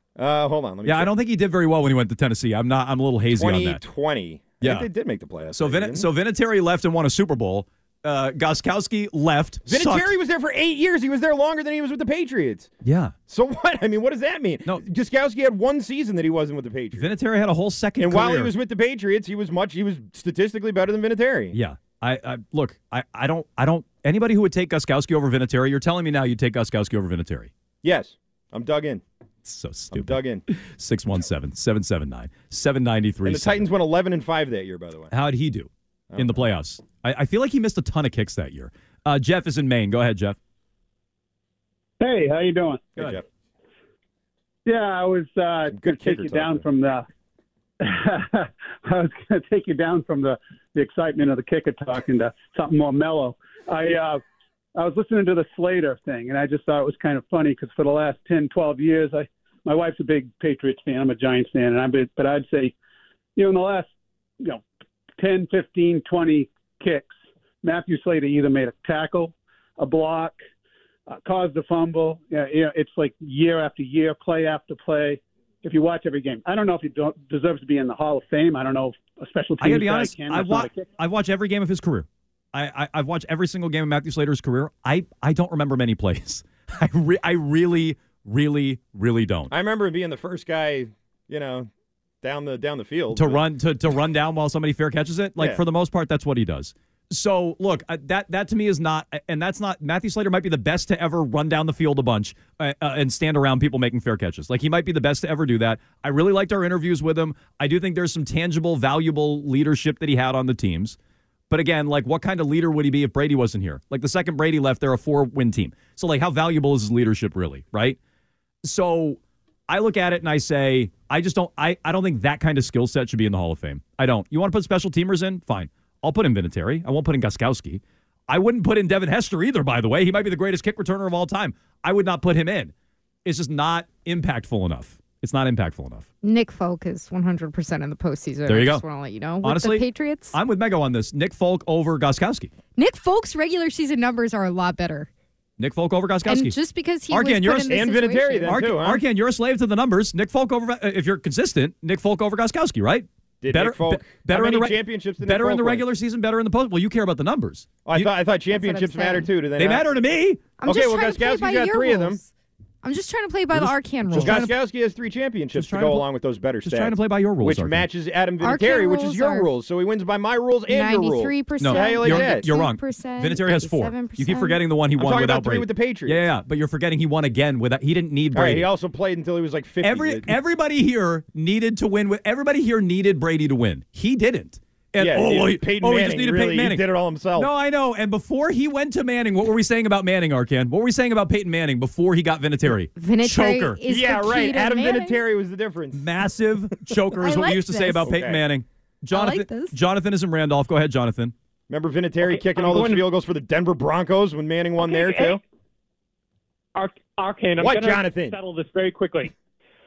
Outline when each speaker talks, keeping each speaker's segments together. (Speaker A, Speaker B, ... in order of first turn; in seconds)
Speaker A: 0.2-1.1, 3.3-6.1, 9.7-12.7, 13.3-17.1, 18.0-21.6, 27.8-29.0, 29.9-30.4, 33.2-35.1, 36.1-36.4, 43.0-43.2, 45.7-46.6, 89.5-91.7, 92.2-93.4, 147.6-149.0, 153.4-155.8, 157.8-159.8, 160.6-162.2, 164.2-172.5, 175.0-176.3, 178.3-180.3, 185.0-187.5, 193.9-196.0, 198.0-198.4, 201.7-205.4, 207.6-208.4
Speaker B: 0.8-3.8, 4.6-4.9, 5.5-10.1, 12.8-13.1, 16.9-18.5, 21.5-27.5, 29.4-33.7, 35.1-40.4, 79.6-89.5, 93.1-111.0, 111.5-118.0, 118.6-132.7, 133.2-136.1, 138.5-138.8, 139.4-142.5, 145.6-146.6, 147.1-147.8, 148.5-158.1, 159.6-160.5, 163.5-164.5, 165.5-166.1, 166.6-167.9, 171.6-178.7, 179.8-186.8, 187.4-193.8, 195.9-201.3
Speaker C: 42.0-43.0, 44.6-47.1, 47.8-54.2, 54.8-62.8, 63.4-63.9, 65.2-70.4, 71.1-80.9
Speaker D: 136.2-140.4, 142.8-145.1, 146.3-148.6, 158.5-159.3, 160.6-162.3, 162.8-164.5, 168.4-169.5, 170.7-174.6, 192.9-195.2, 197.2-198.1, 199.1-199.8
Speaker E: 202.2-203.0, 204.8-205.4, 206.8-209.3